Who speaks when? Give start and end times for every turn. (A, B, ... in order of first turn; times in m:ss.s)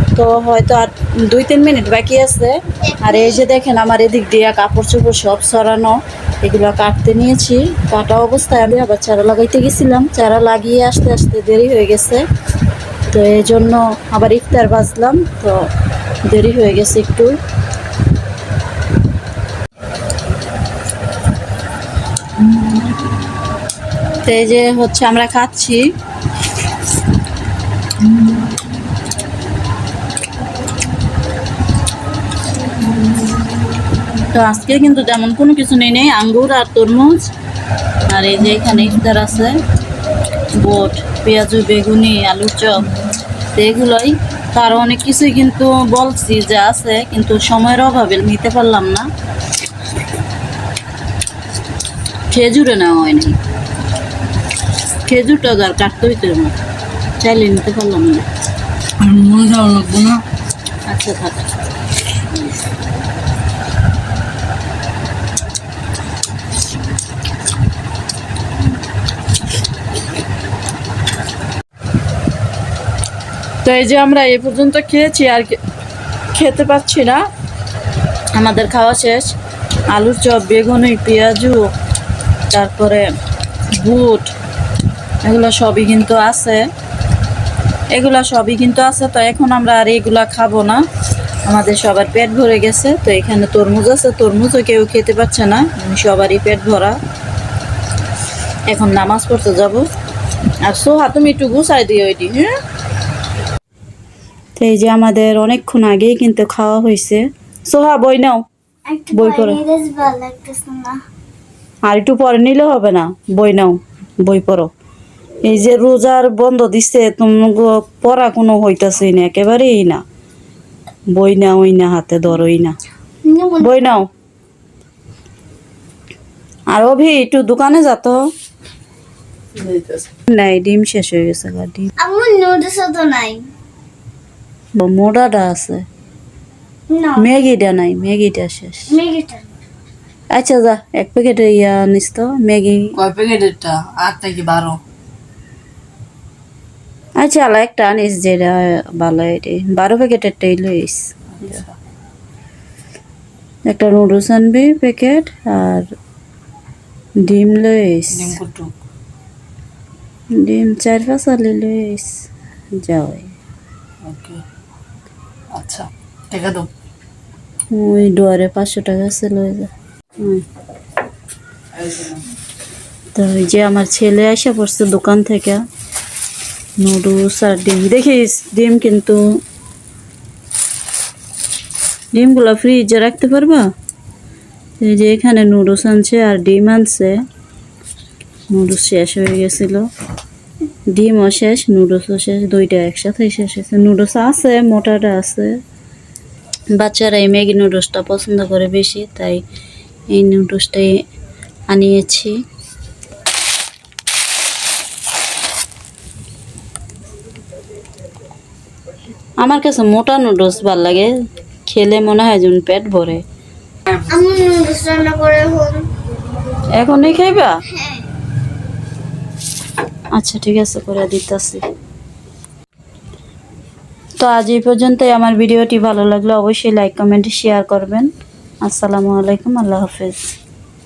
0:00.1-0:12.2 A
0:02.8-0:03.4 B
0:13.1-0:15.7 A
0:16.2-0:17.4 A
0:24.2-0:25.8 A
0:34.3-0:37.3 A
0:38.1-0:39.6 A
0:40.5-0:42.9 A
0:43.5-0:49.1 A
0:52.3-0:53.4 A
0:55.0-0:56.6 A
0:57.2-0:58.3 A
0:59.0-1:00.2 C
1:00.8-1:01.4 A
1:13.6-1:15.6 A
1:16.3-1:17.2 A
1:18.4-1:19.3 A
1:19.9-1:21.6 A
1:22.5-1:23.0 A
1:23.7-1:24.3 A
1:25.2-1:26.7 A
1:27.9-1:30.8 A
1:31.4-1:37.0 A
1:38.7-1:39.8 A
1:40.6-1:42.5 A
1:44.6-1:48.4 A
1:48.9-1:51.0 B
1:49.1-1:49.6 A
1:51.8-1:54.7 A
1:55.4-2:00.0 A
2:01.1-2:02.8 A
2:03.2-2:03.7 B
2:03.6-2:04.0 A
2:06.7-2:08.2 A
2:09.5-2:10.1 C
2:10.3-2:11.9 A
2:12.0-2:13.5 B
2:14.7-2:15.8 A
2:16.9-2:17.3 B
2:17.2-2:18.9 A
2:18.9-2:19.5 B
2:20.3-2:22.9 A
2:23.0-2:24.8 C
2:27.2-2:31.1 A
2:31.4-2:31.8 C
2:33.7-2:35.9 A
2:37.2-2:38.4 A
2:38.1-2:38.7 C
2:40.3-2:42.2 A
2:42.8-2:43.3 A
2:44.0-2:44.4 C
2:45.5-2:46.7 C
2:47.7-2:50.4 A
2:51.8-2:52.2 C
2:53.1-2:55.6 A
2:56.8-2:59.2 A
3:02.1-3:03.7 A
3:04.8-3:07.2 A
3:08.5-3:09.9 A
3:10.9-3:15.6 A
3:16.8-3:19.4 A
3:20.1-3:21.0 A
3:21.7-3:22.4 A
3:29.4-3:31.1 A
3:31.7-3:33.2 A
3:34.1-3:35.9 B
3:36.7-3:37.6 A
3:37.6-3:38.1 B
3:40.1-3:41.6 A
3:44.2-3:48.1 A
3:48.6-3:50.2 A